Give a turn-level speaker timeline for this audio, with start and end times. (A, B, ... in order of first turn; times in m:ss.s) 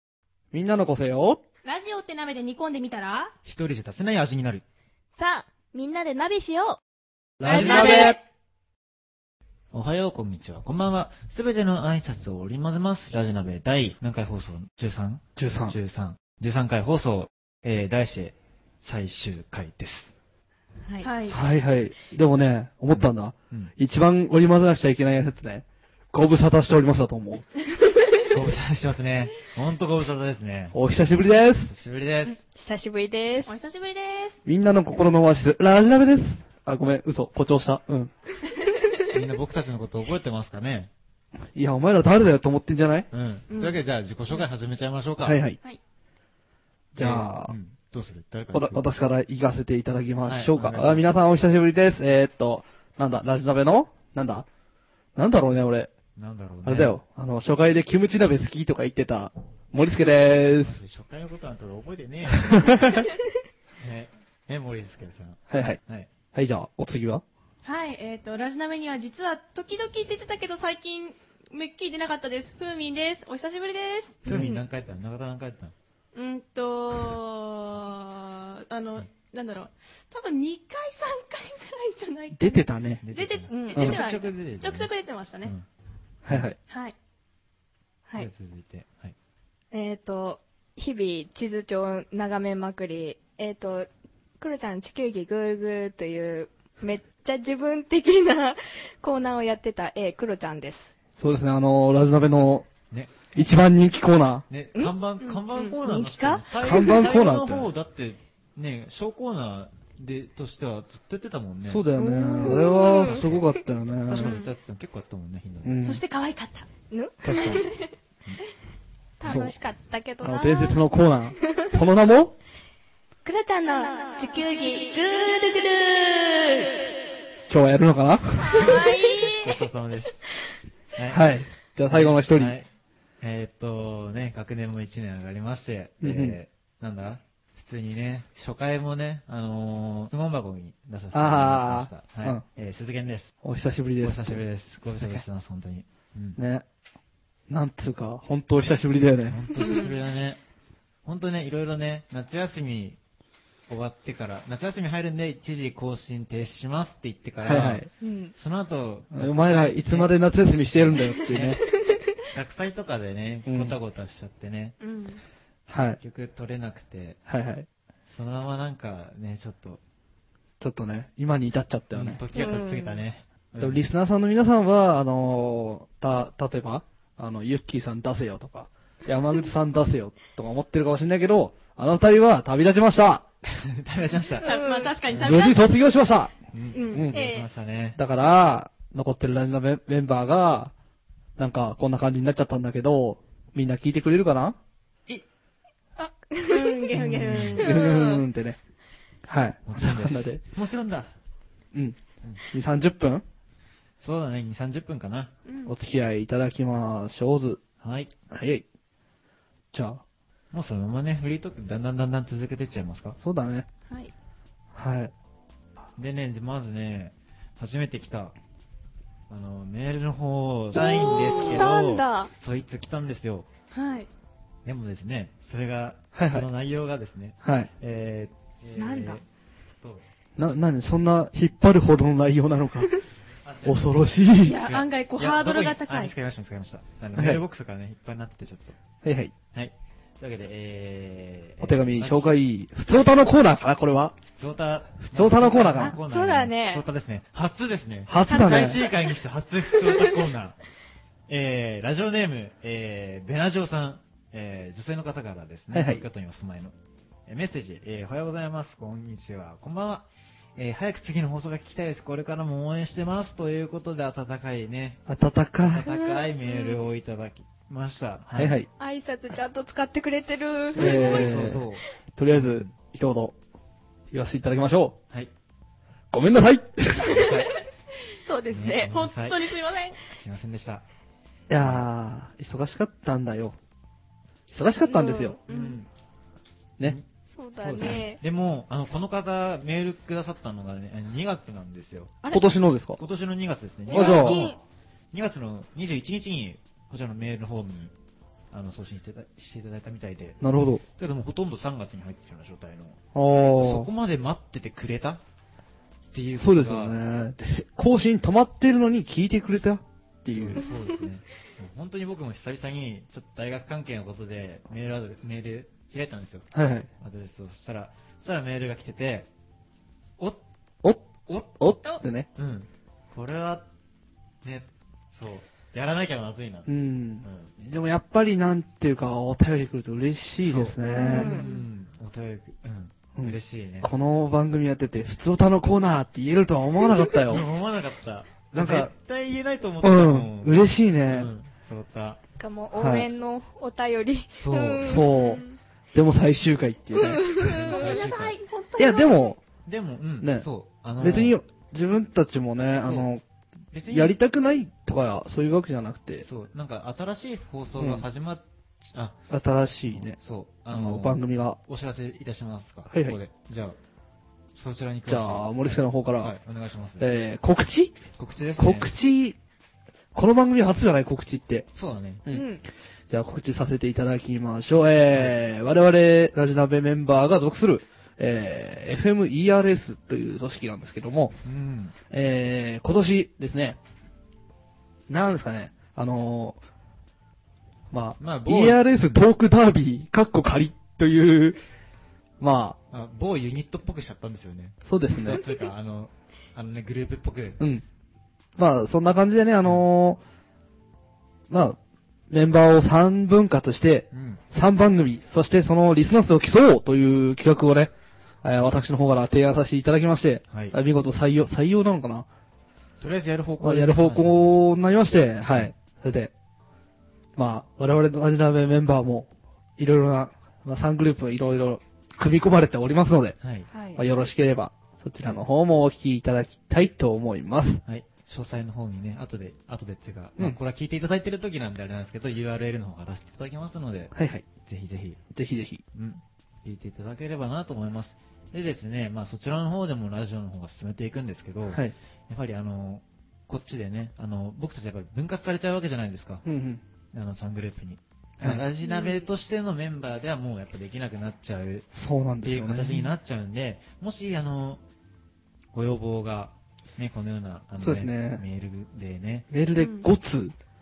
0:00.5-0:01.4 A
0:01.6-0:03.3 B
0:03.4-0:04.6 C
0:05.2-0:06.8 D
0:07.4-0:08.2 A
0:07.4-0:08.2 B
0:07.4-0:08.1 C
0:07.6-0:08.1 D
0:09.7-0:20.1 C
0:15.4-0:15.8 A
0:20.8-0:21.1 D
0:21.0-0:21.4 B
0:21.3-0:27.5 A
0:22.9-0:23.7 C
0:28.3-0:32.4 C
0:30.7-0:31.7 A
0:32.4-0:33.5 D
0:33.4-0:34.4 B
0:34.4-0:38.1 A
0:39.1-0:40.9 C
0:41.5-0:43.1 A
0:43.1-0:45.4 C
0:43.5-0:43.8 B
0:45.2-0:45.6 A
0:46.9-0:47.5 A
0:47.0-0:48.8 C
0:48.5-0:54.4 A
0:50.2-0:51.0 C
0:55.1-0:55.9 A
0:56.2-0:57.0 C
0:56.6-1:00.8 A
1:00.3-1:03.0 C
1:02.3-1:03.1 A
1:03.8-1:06.1 C
1:05.5-1:05.8 A
1:06.3-1:07.2 A
1:07.6-1:14.2 B
1:14.2-1:15.7 C
1:14.3-1:14.6 D
1:16.1-1:25.5 B
1:22.3-1:23.0 A
1:23.0-1:24.9 C
1:23.5-1:23.9 D
1:26.2-1:26.6 A
1:26.7-1:26.9 B
1:28.2-1:29.1 C
1:29.7-1:40.9 D
1:41.2-1:42.7 A
1:42.9-1:43.2 C
1:43.3-1:44.4 A
1:44.5-1:51.8 C
1:45.2-1:45.8 B
1:45.8-1:47.1 D
1:46.6-1:47.7 A
1:51.6-1:54.4 A
1:52.0-1:52.8 B
1:52.0-1:53.3 D
1:53.0-1:53.4 C
1:54.0-1:55.8 C
1:54.2-1:54.4 B
1:55.6-1:56.0 A
1:55.8-1:56.7 B
1:56.9-1:57.8 D
1:57.2-1:57.7 A
1:59.2-2:00.8 D
1:59.2-1:59.6 A
2:00.2-2:02.4 A
2:03.2-2:06.8 D
2:04.0-2:05.0 B
2:07.5-2:08.8 A
2:08.4-2:09.6 B
2:08.6-2:10.2 C
2:10.9-2:12.7 C
2:11.1-2:12.6 A
2:13.2-2:23.3 C
2:16.0-2:16.4 A
2:21.1-2:22.4 A
2:23.4-2:25.2 A
2:24.0-2:26.4 C
2:26.4-2:26.6 A
2:27.5-2:29.4 A
2:29.3-2:30.4 C
2:29.6-2:29.9 B
2:29.6-2:29.9 D
2:31.0-2:33.0 C
2:33.7-2:40.2 C
2:37.4-2:37.9 A
2:38.0-2:38.3 D
2:39.1-2:41.6 A
2:40.7-2:41.6 C
2:42.3-2:44.7 C
2:43.4-2:43.8 A
2:44.8-2:45.2 B
2:45.7-2:46.0 A
2:46.0-2:47.2 C
2:47.3-2:47.7 A
2:48.1-2:49.8 C
2:50.6-2:52.2 A
2:51.9-2:53.8 C
2:52.3-2:53.0 D
2:53.6-3:03.2 A
3:03.4-3:04.6 C
3:04.4-3:05.0 D
3:04.4-3:05.7 B
3:05.1-3:05.4 C
3:05.1-3:06.3 A
3:06.5-3:08.0 C
3:06.7-3:07.1 B
3:06.9-3:07.5 D
3:06.9-3:07.3 A
3:08.0-3:10.7 A
3:11.4-3:14.6 A
3:16.0-3:16.8 D
3:16.5-3:17.8 B
3:17.0-3:18.6 A
3:17.1-3:17.6 C
3:17.6-3:18.2 D
3:19.2-3:20.4 A
3:19.6-3:21.1 C
3:22.5-3:23.2 A
3:24.0-3:25.3 C
3:25.4-3:25.7 B
3:25.6-3:27.6 A
3:27.8-3:28.1 C
3:28.3-3:28.6 A
3:29.7-3:30.0 A
3:30.5-3:33.2 C
3:33.2-3:33.7 A
3:34.7-3:35.1 A
3:36.0-3:38.3 C
3:39.3-3:43.5 C
3:40.7-3:42.3 D
3:43.7-3:44.1 B
3:44.6-3:49.2 C
3:46.1-3:46.5 A
3:47.4-3:47.7 A
3:48.8-3:49.2 D
3:50.4-3:53.0 A
3:53.4-3:58.8 C
3:53.6-3:54.6 A
3:54.4-3:56.1 B
3:57.1-3:57.4 A
3:59.0-3:59.3 A
3:59.5-4:02.4 C
4:01.6-4:04.2 A
4:04.3-4:10.6 C
4:05.0-4:06.0 A
4:05.7-4:06.8 D
4:08.1-4:08.8 A
4:08.3-4:08.9 D
4:09.9-4:10.2 D
4:11.3-4:16.7 C
4:15.7-4:16.0 A
4:17.3-4:25.0 C
4:25.1-4:25.9 A
4:25.6-4:28.6 C
4:25.8-4:26.8 D
4:28.4-4:28.7 A
4:28.8-4:31.5 D
4:30.7-4:32.7 C
4:30.8-4:31.6 A
4:32.2-4:33.4 A
4:34.1-4:35.0 A
4:36.1-4:37.3 A
4:37.0-4:37.6 C
4:38.2-4:38.9 D
4:38.5-4:39.4 C
4:38.8-4:40.0 B
4:40.0-4:40.8 C
4:41.5-4:43.6 A
4:41.6-4:41.8 C
4:44.5-4:45.4 A
4:44.8-4:45.4 D
4:45.5-4:45.8 B
4:45.5-4:45.9 C
4:46.8-4:52.2 C
4:47.3-4:48.2 D
4:52.2-4:52.5 D
4:52.3-4:53.0 A
4:53.0-4:54.5 C
4:53.9-4:54.5 A
4:53.9-4:54.6 D
4:55.1-4:57.9 C
4:58.5-5:00.4 C
5:00.4-5:00.8 A
5:01.0-5:03.0 C
5:03.1-5:03.9 A
5:03.6-5:05.2 C
5:06.1-5:07.0 C
5:06.4-5:10.7 A
5:10.3-5:19.3 C
5:16.5-5:16.9 A
5:20.8-5:22.3 A
5:21.3-5:21.8 C
5:22.3-5:23.7 C
5:24.4-5:26.7 C
5:26.7-5:31.4 A
5:27.2-5:27.5 C
5:30.4-5:33.9 C
5:30.8-5:31.6 B
5:30.9-5:31.5 D
5:33.1-5:37.5 A
5:37.2-5:42.2 C
5:38.5-5:38.9 A
5:39.8-5:41.3 A
5:42.4-5:45.5 D
5:42.7-5:43.1 A
5:44.4-5:45.0 C
5:44.7-5:47.4 A
5:45.1-5:45.4 B
5:47.0-5:48.0 D
5:47.4-5:48.4 C
5:47.6-5:49.3 B
5:48.8-5:49.4 A
5:49.6-5:51.4 C
5:50.2-5:50.4 A
5:51.0-5:53.2 A
5:52.8-5:53.1 C
5:53.7-5:54.2 C
5:53.9-5:56.2 A
5:56.2-5:59.2 C
5:57.8-5:58.0 A
5:59.3-6:00.2 A
5:59.9-6:03.8 C
6:00.7-6:01.6 A
6:02.9-6:03.2 A
6:04.5-6:07.1 C
6:05.1-6:06.3 A
6:07.0-6:08.0 A
6:08.2-6:08.9 C
6:08.6-6:09.4 A
6:10.1-6:11.7 A
6:11.7-6:12.2 C
6:12.3-6:12.6 D
6:13.1-6:21.4 A
6:15.1-6:15.4 C
6:21.4-6:21.9 C
6:22.1-6:23.8 A
6:25.1-6:26.6 A
6:27.9-6:31.6 A
6:28.2-6:29.2 C
6:32.4-6:32.8 A
6:32.9-6:37.6 C
6:34.8-6:35.4 A
6:38.6-6:40.2 A
6:41.5-6:41.8 A
6:42.3-6:47.9 A
6:44.1-6:44.4 C
6:48.4-6:52.2 A
6:50.5-6:50.7 C
6:53.0-6:54.6 C
6:53.6-6:56.3 A
6:57.4-7:03.4 A
7:03.4-7:03.7 C
7:03.7-7:04.0 D
7:03.9-7:07.8 A
7:07.8-7:14.1 C
7:14.1-7:14.4 A
7:14.6-7:15.2 C
7:15.3-7:15.8 A
7:15.9-7:26.4 C
7:26.4-7:26.8 A
7:27.1-7:31.9 C
7:28.8-7:29.3 B
7:31.9-7:33.1 A
7:32.4-7:34.8 C
7:35.7-7:39.5 C
7:37.8-7:38.4 A
7:39.5-7:40.5 A
7:39.8-7:40.1 B